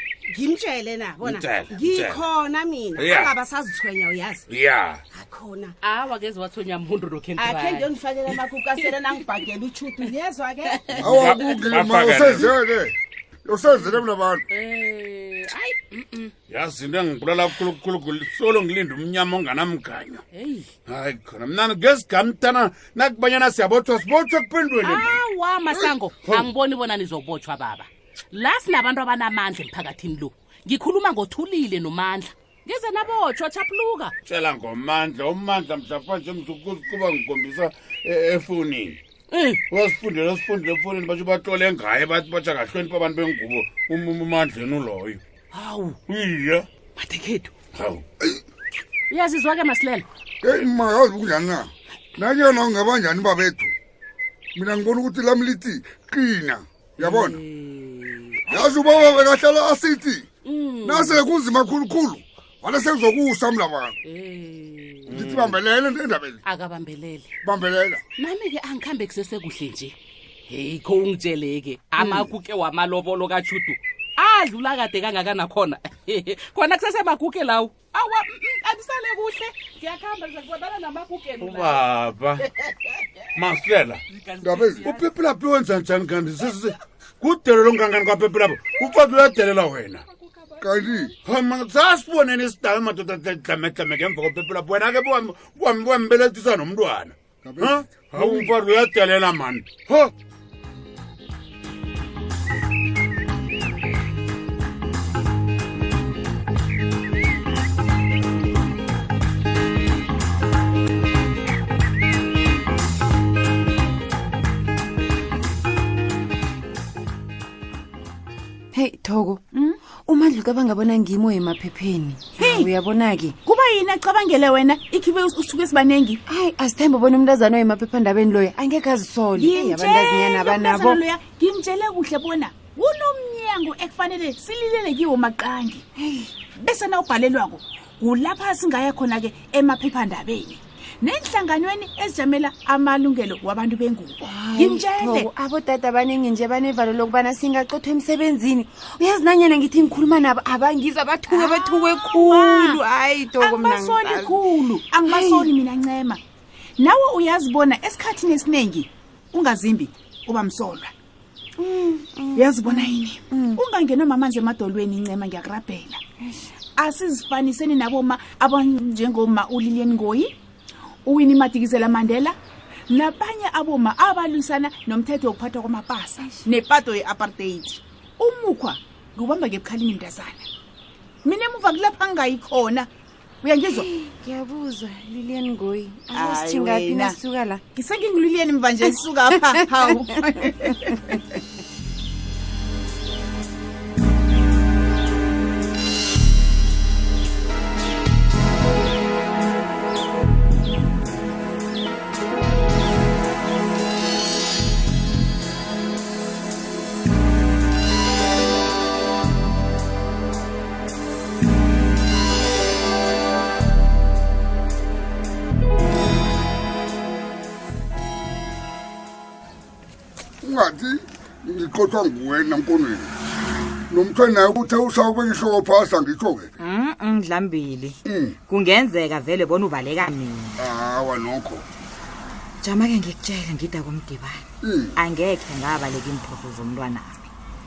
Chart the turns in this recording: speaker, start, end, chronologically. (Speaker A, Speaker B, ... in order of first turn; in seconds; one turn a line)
Speaker A: 0.3-4.5
Speaker B: 1.2-2.2
Speaker B: 3.0-3.3
Speaker B: 4.5-5.0
Speaker A: 5.1-5.8
Speaker C: 5.8-9.4
Speaker A: 7.4-10.9
Speaker C: 10.7-11.7
Speaker B: 11.0-12.6
Speaker D: 11.0-14.5
Speaker C: 13.6-16.3
Speaker B: 16.5-20.2
Speaker C: 20.3-20.7
Speaker B: 20.9-25.2
Speaker C: 24.8-34.1
Speaker B: 34.3-39.0
Speaker C: 39.3-39.6
Speaker B: 39.7-45.2
Speaker C: 45.5-46.0
Speaker B: 46.1-46.7
Speaker C: 47.0-47.5
Speaker B: 47.8-48.0
Speaker C: 49.1-50.0
Speaker D: 50.4-53.7
Speaker D: 54.5-57.4
Speaker C: 57.0-58.7
Speaker D: 58.5-60.3
Speaker C: 60.5-61.2
Speaker D: 60.8-64.0
Speaker C: 64.1-65.2
Speaker B: 65.1-65.6
Speaker D: 65.1-66.4
Speaker C: 66.5-67.3
Speaker D: 67.4-68.0
Speaker C: 68.2-70.0
Speaker C: 70.5-77.8
Speaker E: 77.9-79.6
Speaker C: 78.9-81.8
Speaker B: 81.4-82.5
Speaker B: 83.4-84.0
Speaker C: 84.1-85.1
Speaker D: 84.4-84.8
Speaker B: 84.8-90.0
Speaker D: 90.6-91.1
Speaker B: 91.2-100.1
Speaker D: 97.4-98.5
Speaker F: 118.7-123.3
Speaker E: 122.4-122.7
Speaker E: 123.5-126.2
Speaker F: 126.3-131.0
Speaker E: 129.4-135.8
Speaker F: 136.0-136.3
Speaker E: 136.5-145.3
Speaker F: 144.2-154.6
Speaker E: 151.3-152.8
Speaker E: 153.3-156.2
Speaker F: 155.1-155.5
Speaker E: 156.8-160.9
Speaker F: 161.6-163.6
Speaker E: 162.4-166.0
Speaker E: 166.8-170.3
Speaker E: 171.1-172.4
Speaker E: 172.9-180.5
Speaker F: 176.2-176.5
Speaker E: 181.2-182.9
Speaker E: 183.4-183.8
Speaker F: 183.6-187.6
Speaker E: 186.1-187.2
Speaker E: 187.8-191.1
Speaker F: 188.8-191.0
Speaker D: 220.4-223.1
Speaker D: 223.9-226.5
Speaker G: 226.6-228.0
Speaker D: 228.1-228.4
Speaker G: 228.5-230.6
Speaker D: 230.6-231.7
Speaker G: 232.6-237.3
Speaker D: 234.6-234.9